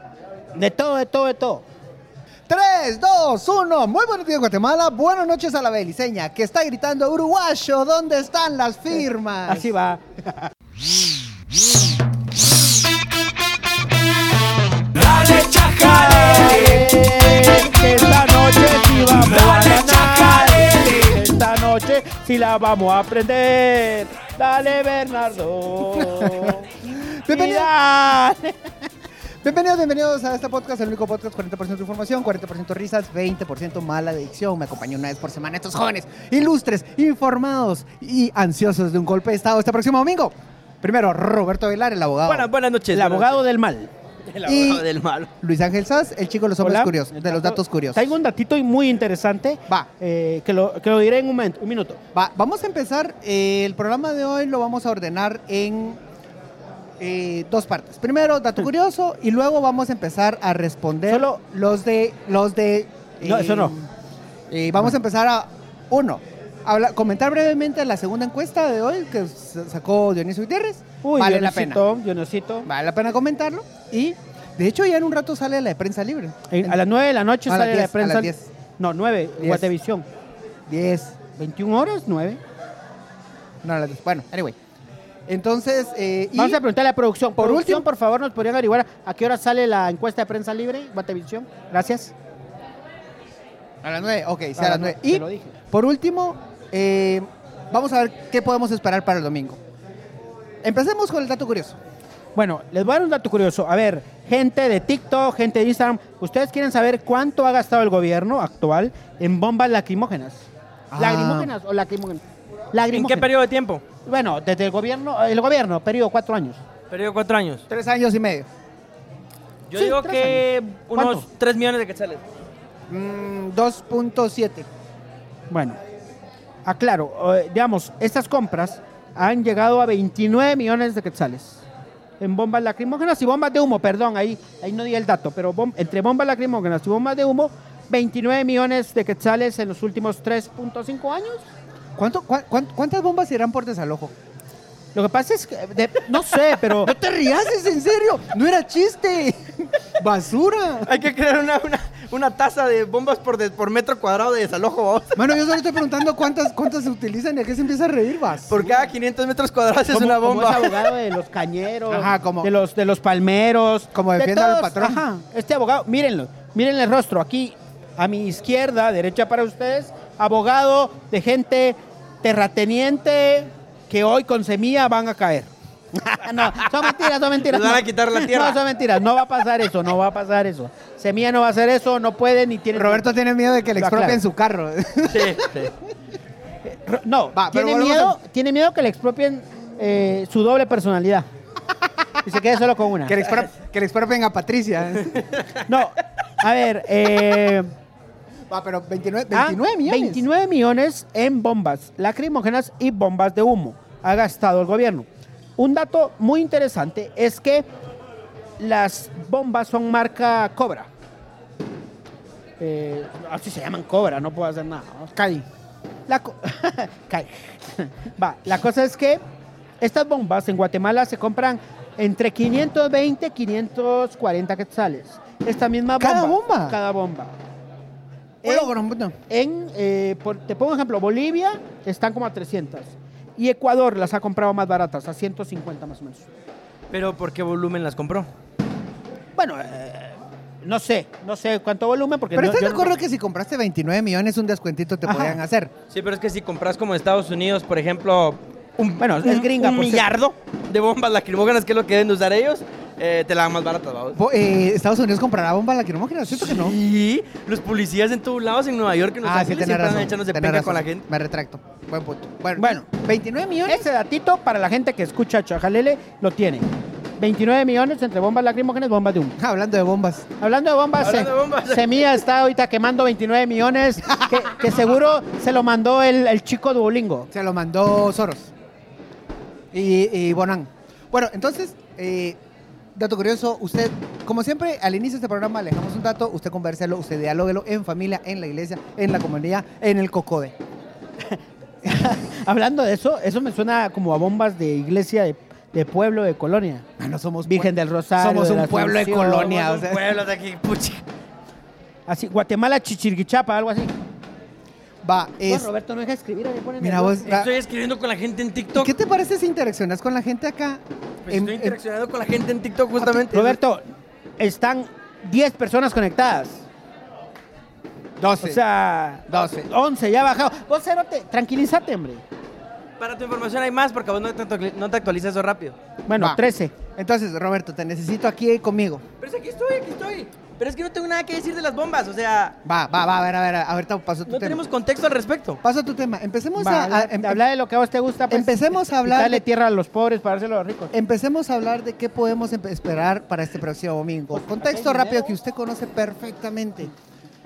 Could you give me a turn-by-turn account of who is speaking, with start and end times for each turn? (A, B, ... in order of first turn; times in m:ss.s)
0:00.5-0:01.7 A
0:02.5-0:09.7 B
0:09.5-0:10.0 A
0:15.0-0:28.7 A
0:25.9-0:27.7 B
0:29.4-0:42.5 B
0:42.2-0:43.4 C
0:42.9-0:43.9 A
0:44.3-0:45.3 C
0:44.4-0:44.9 B
0:45.4-0:48.1 B
0:46.6-0:52.0 A
0:52.1-0:56.0 B
0:57.0-1:03.9 B
1:01.1-1:01.4 A
1:03.2-1:03.8 A
1:04.5-1:11.9 B
1:11.0-1:12.7 A
1:12.7-1:16.8 B
1:16.5-1:20.1 A
1:17.5-1:18.5 B
1:19.4-1:19.7 B
1:20.7-1:21.2 B
1:21.4-1:22.4 A
1:23.6-1:24.6 B
1:25.3-1:26.6 B
1:26.4-1:32.1 A
1:27.4-1:27.9 B
1:33.8-1:39.6 B
1:34.6-1:35.5 A
1:40.6-1:41.8 B
1:42.4-1:52.2 A
1:50.9-1:51.5 B
1:52.7-1:53.3 A
1:52.9-1:53.8 C
1:54.0-1:56.6 A
1:56.9-1:57.6 C
1:57.7-1:58.5 B
1:59.7-2:02.2 C
1:59.8-2:00.4 B
2:01.0-2:01.2 B
2:02.9-2:04.7 B
2:05.5-2:05.8 A
2:06.6-2:11.6 A
2:12.2-2:21.5 A
2:22.0-2:24.1 B
2:25.0-2:26.9 A
2:26.8-2:30.9 B
2:30.8-2:35.2 C
2:35.2-2:38.6 B
2:38.5-2:40.9 C
2:39.9-3:03.1 A
2:41.9-2:42.5 B
2:43.9-2:45.0 B
2:57.4-2:58.6 C
3:02.7-3:05.7 B
3:03.8-3:04.2 A
3:05.1-3:05.7 C
3:06.6-3:11.3 A
3:07.3-3:08.2 B
3:12.2-3:13.2 A
3:13.0-3:15.4 B
3:15.7-3:17.7 A
3:18.5-3:20.2 B
3:19.3-3:27.7 A
3:28.6-3:30.9 A
3:32.6-3:35.5 A
3:36.1-3:39.2 A
3:39.8-3:47.3 A
3:46.0-3:46.8 B
3:48.4-3:48.7 A
3:48.4-3:49.2 B
3:49.3-3:56.3 A
3:56.9-3:58.3 C
3:59.4-4:02.9 A
4:02.3-4:05.7 B
4:05.1-4:05.3 A
4:05.9-4:14.2 C
4:09.0-4:10.1 A
4:14.2-4:16.8 B
4:16.3-4:21.0 C
4:19.2-4:23.8 B
4:22.6-4:22.8 A
4:23.6-4:29.4 A
4:29.4-4:30.3 B
4:30.4-4:37.3 A
4:31.0-4:32.1 C
4:37.3-4:38.5 B
4:39.7-4:42.4 B
4:43.0-4:50.6 B
4:51.3-4:56.8 A
4:57.0-5:00.1 B
4:57.5-4:59.5 A
4:59.3-5:01.0 C
5:02.1-5:04.0 A
5:05.0-5:05.7 B
5:05.5-5:07.3 A
5:06.8-5:07.5 B
5:07.2-5:08.9 C
5:08.7-5:11.8 B
5:11.3-5:13.6 C
5:13.0-5:13.9 A
5:14.4-5:16.6 A
5:18.2-5:18.6 B
5:18.4-5:22.2 A
5:19.3-5:19.7 B
5:23.0-5:25.8 C
5:26.1-5:26.7 A
5:27.0-5:29.0 B
5:29.2-5:32.6 C
5:32.6-5:34.6 B
5:34.3-5:35.6 C
5:35.6-5:37.4 B
5:36.6-5:40.9 A
5:38.3-5:39.4 B
5:40.9-5:46.9 B
5:44.3-5:45.4 A